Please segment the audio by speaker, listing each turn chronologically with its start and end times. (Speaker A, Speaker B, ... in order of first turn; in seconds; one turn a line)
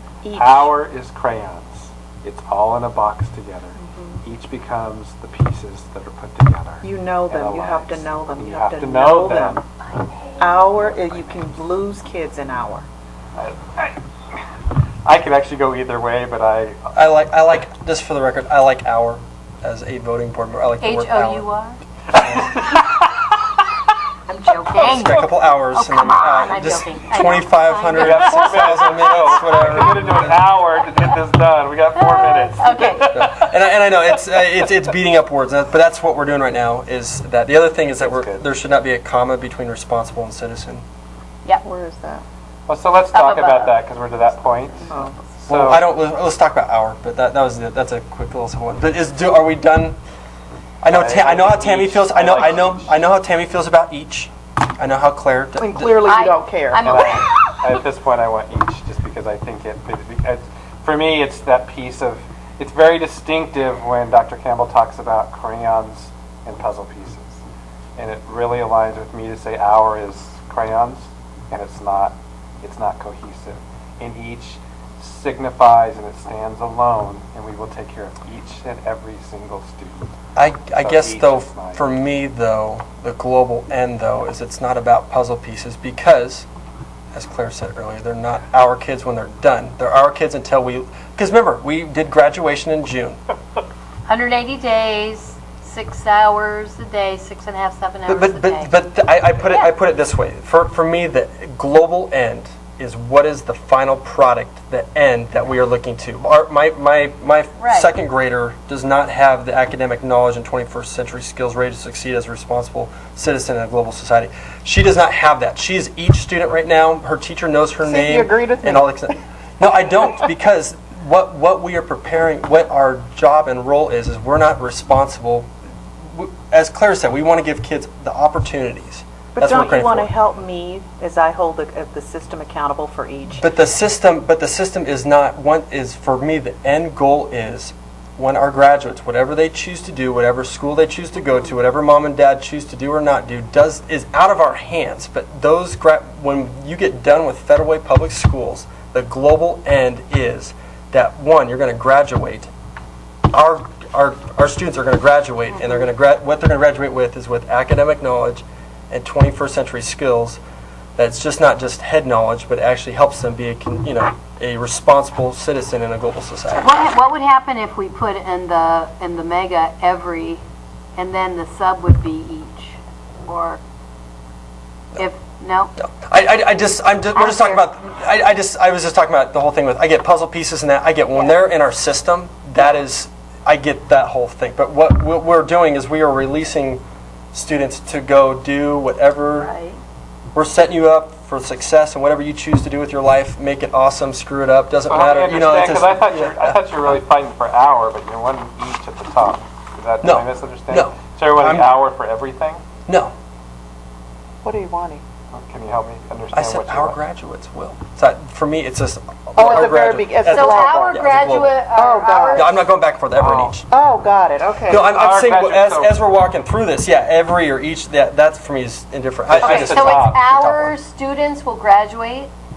Speaker A: 0.2-0.7
Speaker B: 0.3-9.7
Speaker A: 3.8-4.2
Speaker A: 6.8-9.6
Speaker A: 10.4-12.9
Speaker B: 10.8-11.6
Speaker B: 13.3-14.0
Speaker B: 15.0-17.0
Speaker C: 16.9-21.5
Speaker D: 20.8-21.8
Speaker B: 22.1-23.2
Speaker D: 24.3-30.3
Speaker C: 24.8-30.4
Speaker B: 24.9-25.2
Speaker B: 27.9-33.5
Speaker D: 31.9-33.2
Speaker C: 33.1-40.8
Speaker B: 38.0-38.5
Speaker A: 41.6-42.2
Speaker B: 42.7-45.9
Speaker D: 43.1-43.8
Speaker A: 44.9-45.1
Speaker C: 45.5-50.0
Speaker C: 50.8-56.0
Speaker B: 50.9-53.0
Speaker A: 55.5-57.4
Speaker D: 56.0-57.3
Speaker B: 56.8-67.4
Speaker B: 68.0-80.1
Speaker C: 80.3-86.5
Speaker B: 80.8-81.8
Speaker C: 87.1-93.2
Speaker D: 94.1-98.7
Speaker C: 98.0-125.5
Speaker D: 99.4-99.7
Speaker D: 107.6-107.9
Speaker A: 117.8-119.1
Speaker C: 126.1-130.1
Speaker A: 129.3-133.4
Speaker C: 133.4-152.5
Speaker C: 153.3-160.4
Speaker D: 155.5-155.9
Speaker C: 160.9-166.8
Speaker D: 166.6-170.4
Speaker D: 170.9-173.6
Speaker D: 174.9-175.7
Speaker C: 175.8-186.8
Speaker D: 177.1-177.6
Speaker C: 187.3-189.5
Speaker D: 189.3-189.8
Speaker C: 190.3-196.6
Speaker B: 194.8-202.6
Speaker C: 200.0-201.7
Speaker C: 202.8-203.1
Speaker A: 204.4-205.0
Speaker B: 205.3-207.0
Speaker C: 206.3-211.6
Speaker A: 209.3-211.0
Speaker D: 210.3-212.5
Speaker A: 211.7-212.6
Speaker C: 212.3-213.7
Speaker B: 213.2-213.6
Speaker A: 213.7-214.9
Speaker C: 214.7-220.7
Speaker B: 214.9-215.9
Speaker B: 219.3-220.2
Speaker D: 219.4-222.3